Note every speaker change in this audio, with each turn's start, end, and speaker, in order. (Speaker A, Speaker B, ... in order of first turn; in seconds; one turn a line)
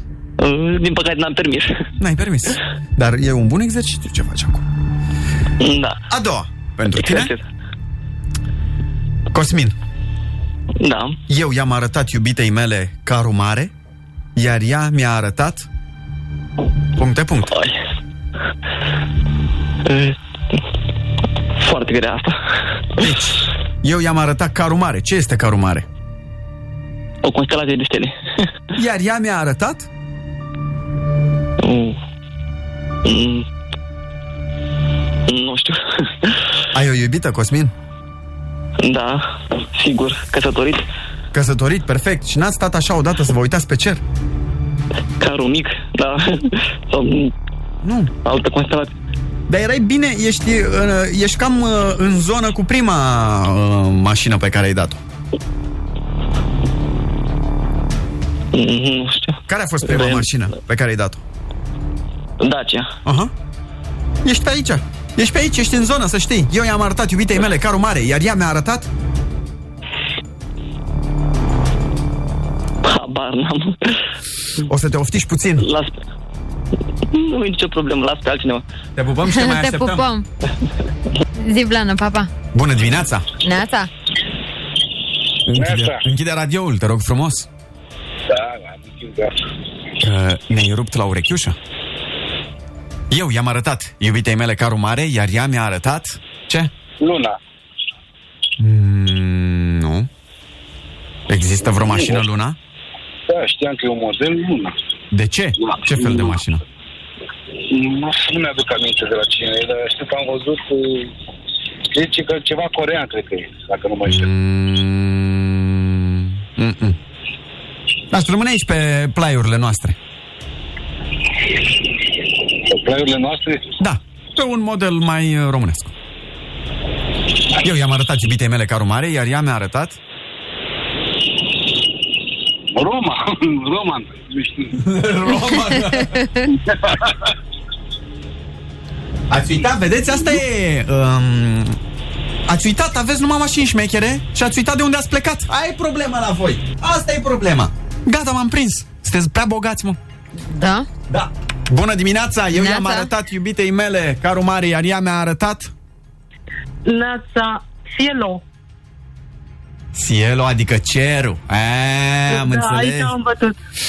Speaker A: 0.4-1.9
Speaker B: 2.0-4.7
Speaker A: 5.6-6.0
Speaker B: 6.1-7.3
Speaker A: 7.0-7.4
Speaker B: 9.3-9.8
Speaker A: 10.8-11.2
Speaker B: 11.3-13.7
Speaker B: 14.4-15.7
Speaker B: 16.9-17.6
Speaker A: 17.5-17.8
Speaker A: 19.9-20.6
Speaker A: 21.6-23.1
Speaker B: 23.0-25.9
Speaker A: 27.2-28.2
Speaker B: 28.8-29.9
Speaker A: 31.6-32.0
Speaker A: 33.0-33.5
Speaker A: 35.3-36.3
Speaker B: 36.7-37.7
Speaker A: 38.8-40.8
Speaker B: 41.3-44.0
Speaker A: 45.2-47.3
Speaker B: 47.8-48.1
Speaker A: 48.2-48.9
Speaker B: 49.5-55.0
Speaker A: 58.5-60.3
Speaker B: 59.5-61.2
Speaker A: 62.4-62.9
Speaker B: 63.0-63.3
Speaker B: 64.2-68.9
Speaker A: 72.8-74.0
Speaker B: 74.6-75.7
Speaker A: 75.6-75.9
Speaker A: 77.1-78.6
Speaker B: 79.0-80.1
Speaker C: 79.3-80.3
Speaker C: 81.4-82.3
Speaker B: 82.5-83.3
Speaker C: 83.4-83.9
Speaker B: 85.5-87.5
Speaker D: 85.6-86.0
Speaker D: 88.3-89.4
Speaker B: 90.0-91.6
Speaker B: 93.1-96.7
Speaker D: 97.0-97.4
Speaker B: 98.6-100.1
Speaker B: 101.3-102.6
Speaker D: 101.7-102.2
Speaker D: 103.3-104.8
Speaker B: 105.1-106.6
Speaker D: 105.6-106.4
Speaker D: 107.7-111.1
Speaker D: 111.9-114.3
Speaker B: 114.1-117.0
Speaker B: 118.1-120.0
Speaker D: 122.7-123.7
Speaker B: 123.8-125.9
Speaker B: 127.6-130.0
Speaker D: 132.7-134.9
Speaker B: 134.8-136.3
Speaker C: 135.7-136.5
Speaker D: 136.6-137.2
Speaker B: 139.3-141.8
Speaker B: 142.5-150.0
Speaker C: 150.4-150.9
Speaker B: 151.1-155.7
Speaker C: 152.5-153.1
Speaker E: 156.9-158.4
Speaker B: 159.9-163.2
Speaker E: 162.3-163.6